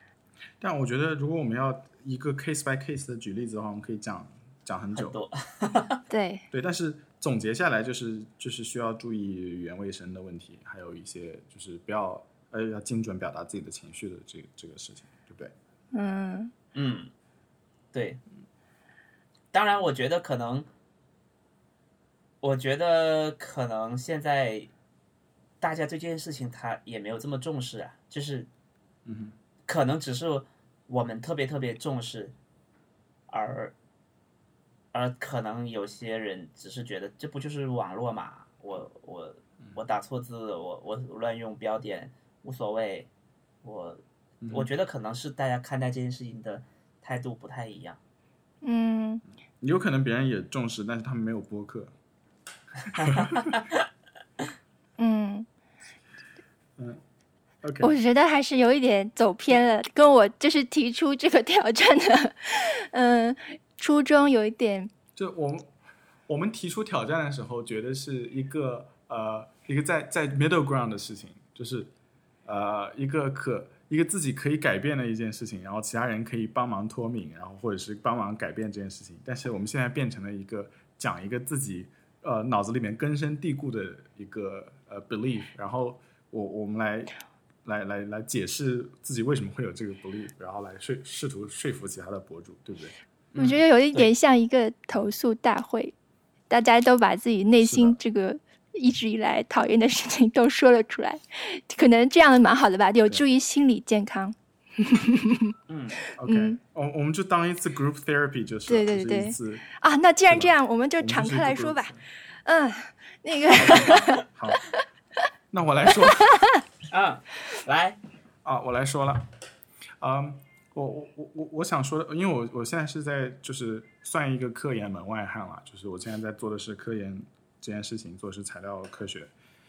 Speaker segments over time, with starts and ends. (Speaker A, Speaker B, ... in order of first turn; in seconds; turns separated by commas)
Speaker A: 0.6-5.2, Speaker B: 4.9-6.0, Speaker C: 6.1-6.4, Speaker A: 6.5-15.5, Speaker C: 15.9-16.5, Speaker B: 16.7-17.1, Speaker B: 17.9-18.2, Speaker B: 19.5-20.7, Speaker B: 22.4-24.7, Speaker B: 25.6-28.5, Speaker A: 29.0-29.3, Speaker B: 29.7-32.3, Speaker B: 33.3-33.7, Speaker B: 34.9-43.1, Speaker B: 43.6-48.0, Speaker A: 44.4-44.7, Speaker C: 48.6-49.2, Speaker A: 49.6-51.9, Speaker B: 52.9-53.8, Speaker A: 53.0-53.6, Speaker C: 55.0-55.5, Speaker A: 56.8-57.0, Speaker A: 57.6-57.9, Speaker C: 57.8-64.9, Speaker A: 65.2-65.7, Speaker A: 66.3-71.9, Speaker A: 72.5-87.1, Speaker A: 87.6-92.9, Speaker C: 93.4-95.9, Speaker C: 96.5-105.5, Speaker A: 97.6-98.0, Speaker B: 105.7-106.0, Speaker C: 106.1-106.6, Speaker A: 106.2-109.6, Speaker C: 108.7-111.9, Speaker A: 110.3-112.0, Speaker C: 112.4-114.2, Speaker A: 113.6-114.7, Speaker A: 115.5-116.6, Speaker B: 116.9-118.0, Speaker A: 118.4-119.3, Speaker A: 120.0-129.3